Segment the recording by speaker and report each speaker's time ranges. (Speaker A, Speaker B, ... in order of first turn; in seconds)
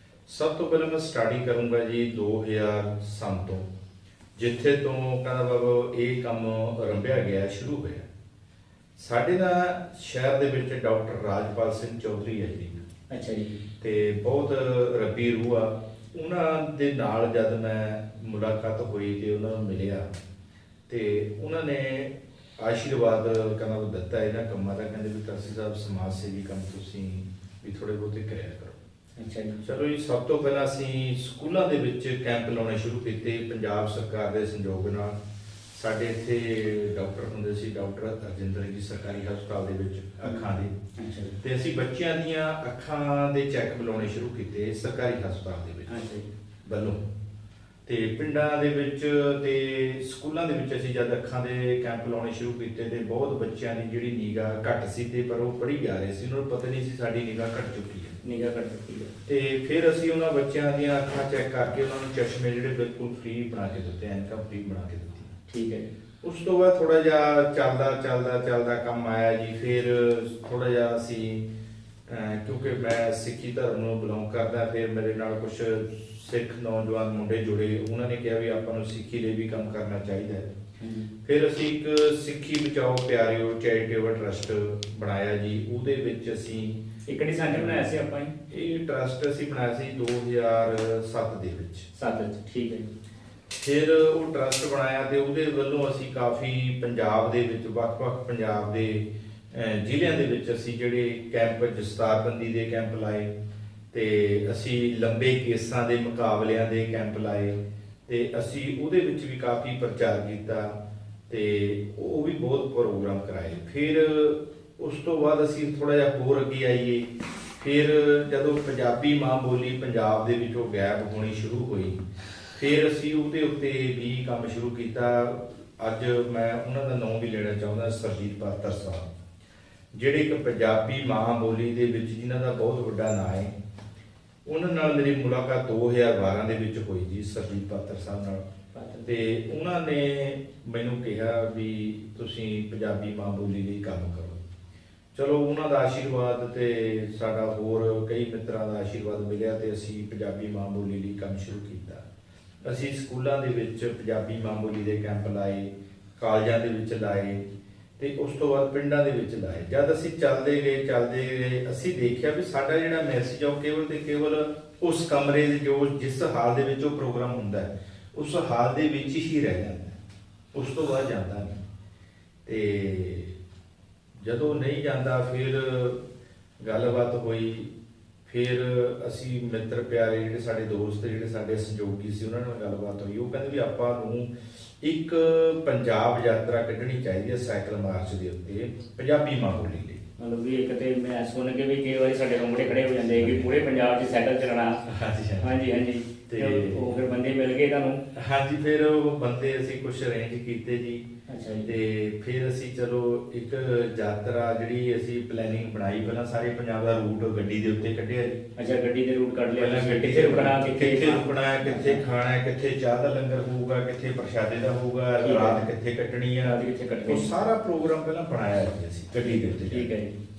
Speaker A: 0.3-3.7, 4.4-8.1, 9.0-12.9, 13.8-20.1, 20.9-28.8, 29.6-35.2, 35.7-40.7, 41.4-45.9, 46.6-47.0, 47.9-58.2, 59.3-65.3, 66.2-71.5, 72.1-80.5, 81.2-86.8, 87.5-88.0, 88.5-91.9, 93.5-103.3, 103.9-110.7, 111.3-122.0, 122.5-129.1, 129.9-133.5, 134.4-138.4, 139.0-144.4, 145.1-152.0, 152.6-157.5, 158.0-170.0, 170.5-171.6, 172.4-173.4, 174.1-176.0, 176.6-177.7, 178.2-190.0, 193.0-193.5, 194.8-195.6, 196.3-197.0, 198.1-201.0, 201.6-208.4, 209.5-219.9
Speaker B: 13.1-13.5, 29.2-29.6, 40.2-41.4, 45.9-46.2, 58.2-59.1, 65.5-65.9, 80.8-81.1, 87.1-88.3, 91.9-92.9, 138.7-139.1, 190.2-194.8, 195.4-198.0, 201.3-201.7, 208.6-212.0, 215.2-215.6, 216.4-217.3, 219.2-220.1